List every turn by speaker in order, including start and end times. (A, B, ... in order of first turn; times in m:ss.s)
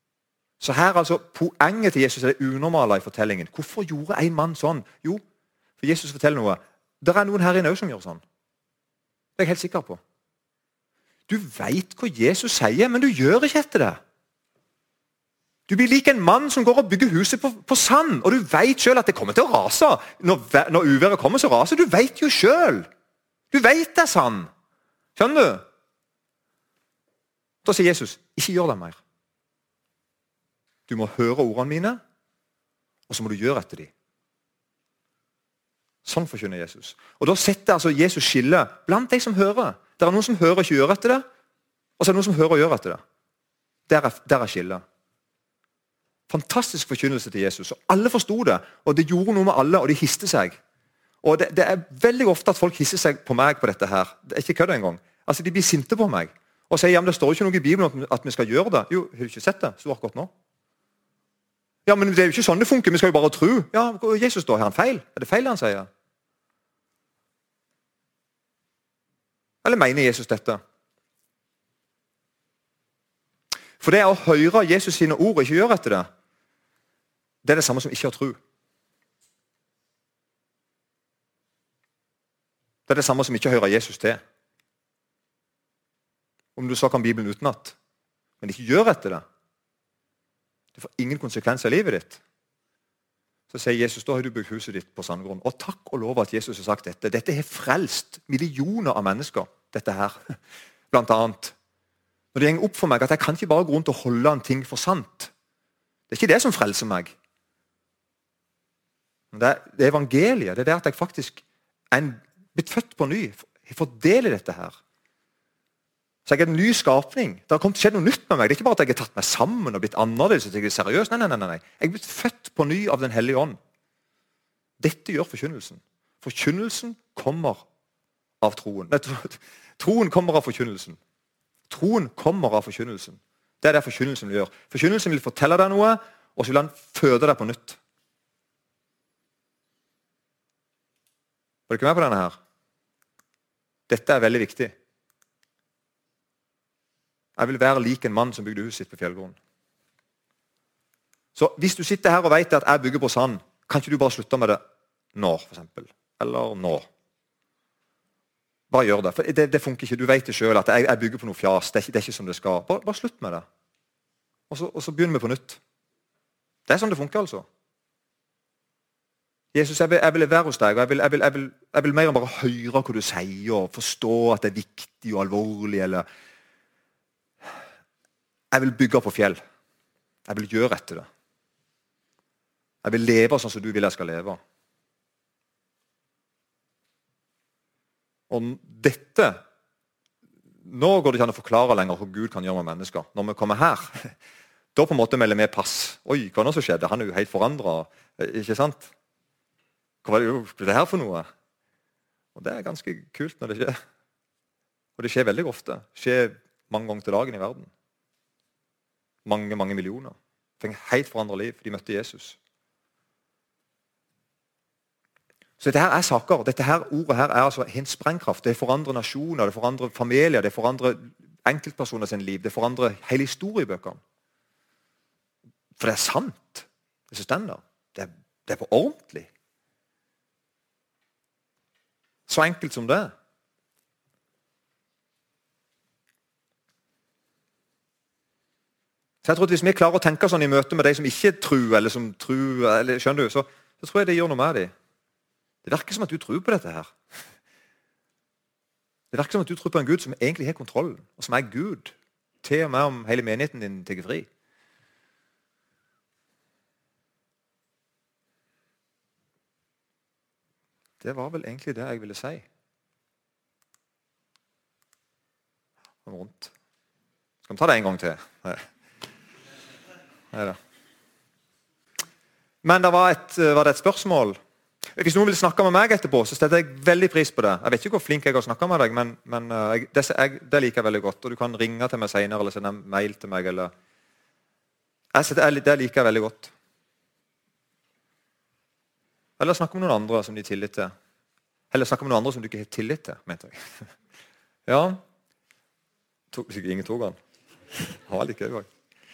0:00.6-0:05.2 A
0:05.8-0:08.2 A
0:09.4-0:10.0 A
0:11.3-0:14.0 A
0:15.7-0:22.9 A
0:23.5-0:24.5 A
0:25.2-0:25.6 A
0:27.6-0:29.0 A
0:30.9-0:32.0 A
0:33.1-0:33.9 A
0:36.0-0:41.2 A
0:42.0-0:43.0 A
0:43.9-0:44.8 A
0:46.3-0:50.6 A
0:51.2-1:00.3 A
1:01.9-1:05.9 A
1:09.6-1:10.6 A
1:13.8-1:16.1 A
1:17.4-1:18.4 A
1:22.9-1:24.2 A
1:26.6-1:27.8 A
1:28.4-1:29.2 A
1:30.8-1:32.2 A
1:33.5-1:40.4 A
1:40.9-1:41.6 A
1:42.3-1:45.3 A
1:46.1-1:47.1 A
1:49.3-1:54.8 A
1:56.3-2:03.6 A
2:04.8-2:07.6 A
2:08.4-2:11.0 A
2:11.7-2:17.8 A
2:21.7-2:22.4 A
2:23.9-2:24.7 A
2:27.4-2:29.4 A
2:31.4-2:34.6 A
2:35.2-2:36.9 A
2:38.7-2:43.4 A
2:44.5-2:45.6 A
2:46.7-2:47.4 A
2:49.5-2:56.0 A
2:58.5-2:59.4 A
3:00.3-3:01.1 A
3:02.8-3:04.4 A
3:08.3-3:09.4 A
3:10.6-3:14.1 A
3:14.8-3:18.9 A
3:20.0-3:21.3 A
3:22.4-3:23.8 A
3:25.0-3:27.7 A
3:29.2-3:32.4 A
3:35.6-3:44.0 A
3:45.8-3:49.3 A
3:52.3-3:53.1 A
3:59.2-4:04.7 A
4:05.6-4:06.9 A
4:09.1-4:14.3 A
4:21.0-4:22.4 A
4:26.0-4:26.5 A
4:27.5-4:28.7 A
4:30.3-4:30.6 A
4:32.6-4:34.4 A
4:35.0-4:43.7 A
4:45.1-4:46.5 A
4:49.4-4:50.9 A
4:51.7-4:53.8 A
4:54.7-4:55.0 A
4:56.3-4:57.2 A
4:57.7-4:58.7 A